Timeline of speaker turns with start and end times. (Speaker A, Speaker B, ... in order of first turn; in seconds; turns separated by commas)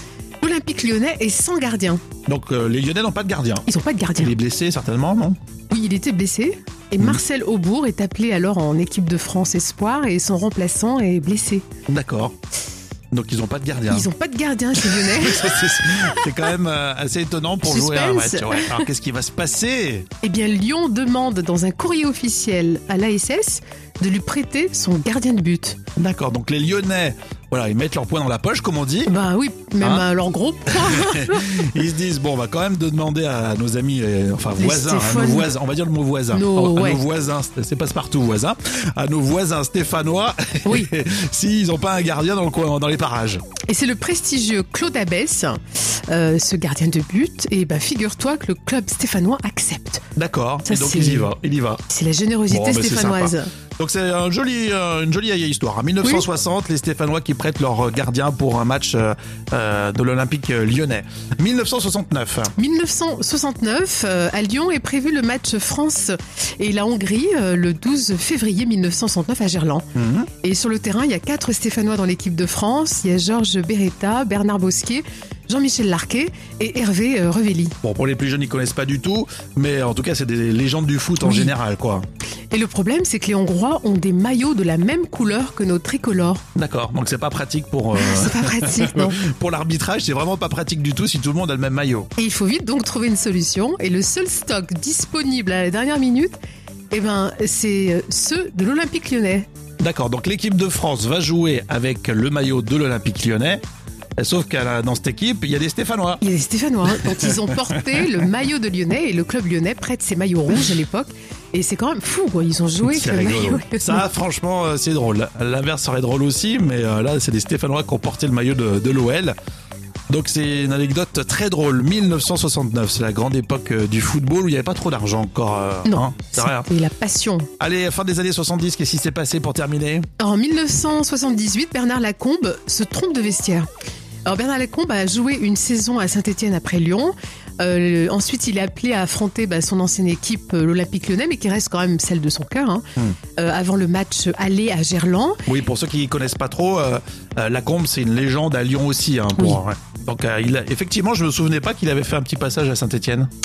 Speaker A: 0.4-2.0, Speaker B: 2.2-3.7, Speaker A: 3.7-4.3, Speaker B: 4.2-5.4, Speaker A: 5.7-11.7, Speaker B: 11.9-12.3, Speaker B: 13.1-14.1, Speaker A: 13.9-16.2, Speaker B: 14.8-20.1, Speaker A: 17.6-18.9, Speaker A: 20.2-25.8, Speaker B: 25.9-29.1, Speaker A: 29.1-31.6, Speaker B: 29.8-30.1, Speaker B: 30.7-43.4, Speaker A: 34.6-35.5, Speaker A: 36.3-37.0, Speaker A: 43.7-50.0, Speaker B: 50.1-51.8, Speaker A: 50.7-51.3, Speaker A: 51.9-53.5, Speaker B: 52.5-62.5, Speaker A: 62.5-77.8, Speaker B: 69.9-70.3, Speaker B: 77.8-82.0, Speaker A: 81.2-81.5, Speaker A: 82.5-86.4, Speaker B: 86.5-92.1, Speaker A: 88.0-89.2, Speaker A: 92.2-96.4, Speaker A: 96.9-99.5, Speaker B: 99.8-103.6, Speaker B: 104.2-106.2, Speaker A: 106.2-114.0, Speaker B: 112.8-119.3, Speaker B: 120.1-126.7, Speaker A: 125.9-127.5, Speaker B: 127.6-130.1, Speaker A: 130.2-133.7, Speaker A: 134.2-142.8, Speaker A: 143.4-145.4, Speaker B: 145.5-153.3